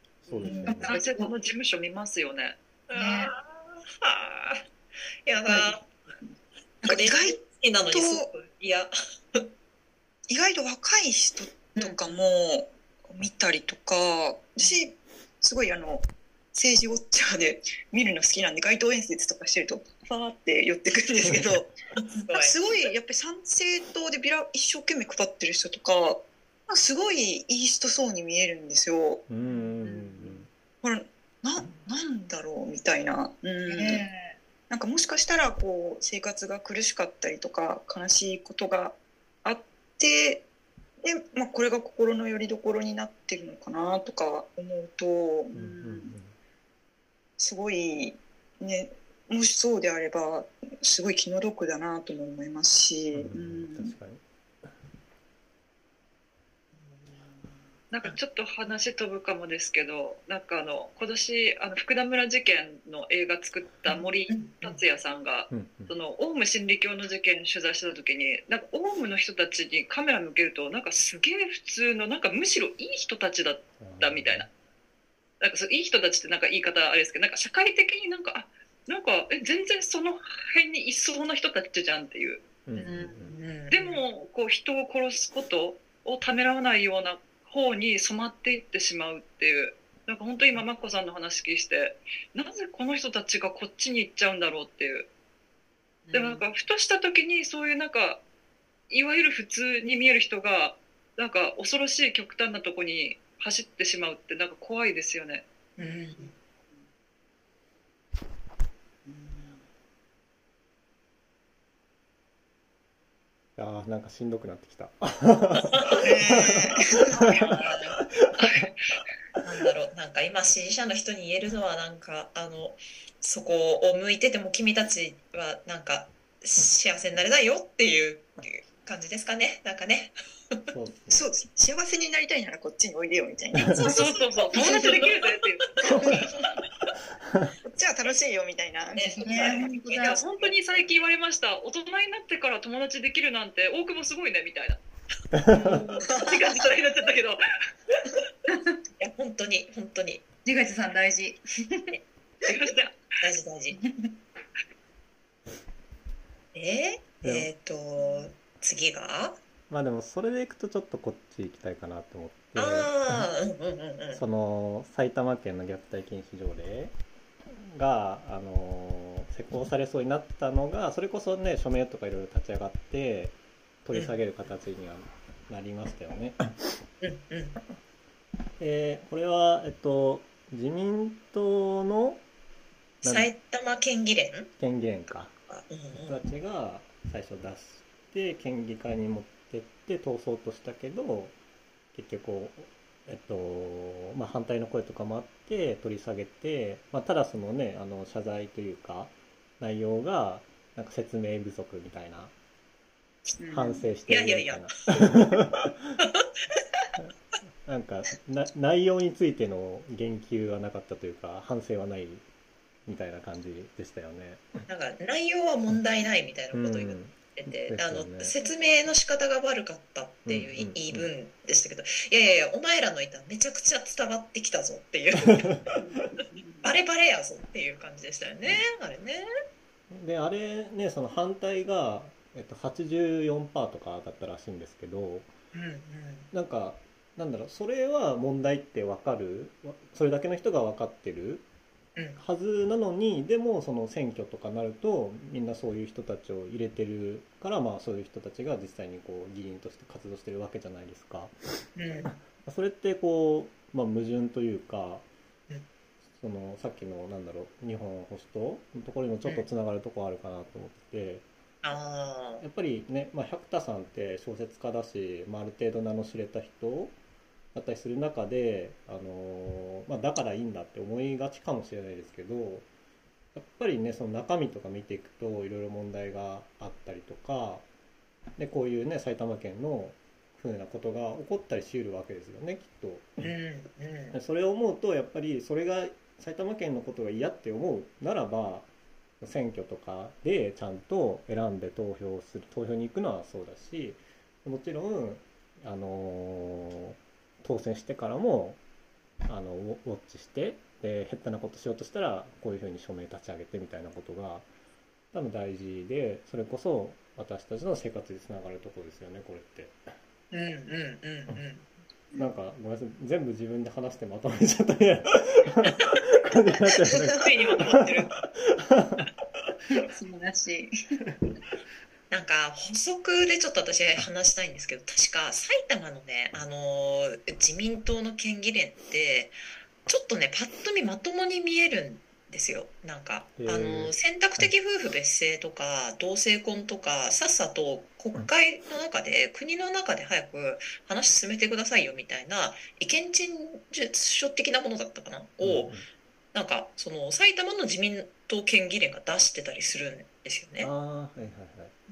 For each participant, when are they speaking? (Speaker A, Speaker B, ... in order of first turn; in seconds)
Speaker A: 0.2-1.0, 29.3-30.5, 45.5-46.4, 53.1-54.2, 65.5-65.9, 73.8-74.5, 82.7-83.4, 113.6-118.6, 130.7-131.3, 145.3-145.8, 157.2-157.5, 159.7-163.3, 164.1-166.9, 167.5-176.8, 178.6-182.2, 183.0-183.3, 184.6-185.3, 185.9-191.3, 191.9-202.3, 203.5-205.9, 207.7-212.2, 212.9-214.7, 216.5-218.3, 220.3-221.1, 229.9-235.3, 236.3-241.4, 242.2-251.3, 252.1-255.1, 256.2-261.3, 262.4-267.0, 267.5-272.7, 273.3-277.6, 278.4-283.3, 284.1-288.7, 289.2-298.6, 299.3-304.5, 305.1-309.9, 312.2-319.1, 333.4-334.5, 345.4-345.9, 350.6-351.7
Speaker B: 0.4-1.3, 2.9-3.3, 29.8-30.5, 33.7-34.4, 82.8-83.2, 109.1-109.6, 139.0-140.2, 150.4-152.0, 153.7-154.1, 203.4-203.9, 319.7-320.7
Speaker C: 0.6-2.6, 57.9-74.5, 75.4-82.4, 83.7-95.1, 96.1-98.2, 98.9-105.5, 133.8-136.1, 140.0-144.8, 145.5-147.4, 152.5-153.0
Speaker D: 2.9-4.7, 5.2-5.9, 6.8-9.4, 21.9-22.7, 64.3-64.8, 83.3-84.0, 96.1-96.4, 105.8-106.3, 115.6-116.1, 117.1-118.7, 119.4-130.6, 134.5-136.6, 139.0-140.5, 145.5-146.1, 149.0-150.2, 153.2-153.8, 156.5-159.4, 162.6-164.2, 177.0-177.6, 183.0-184.5, 185.5-186.2, 204.1-205.1, 206.0-206.8, 214.7-229.2, 235.5-236.3, 251.8-252.1, 261.6-262.4, 283.2-284.1, 310.3-311.7, 317.0-318.2, 322.1-345.8, 346.3-350.7
Speaker E: 6.8-7.4, 7.9-8.3, 10.3-21.7, 22.3-29.2, 30.8-34.0, 34.7-40.5, 41.0-46.1, 47.4-53.9, 116.0-117.1, 131.1-135.2, 135.8-136.3, 137.7-139.7, 146.2-146.6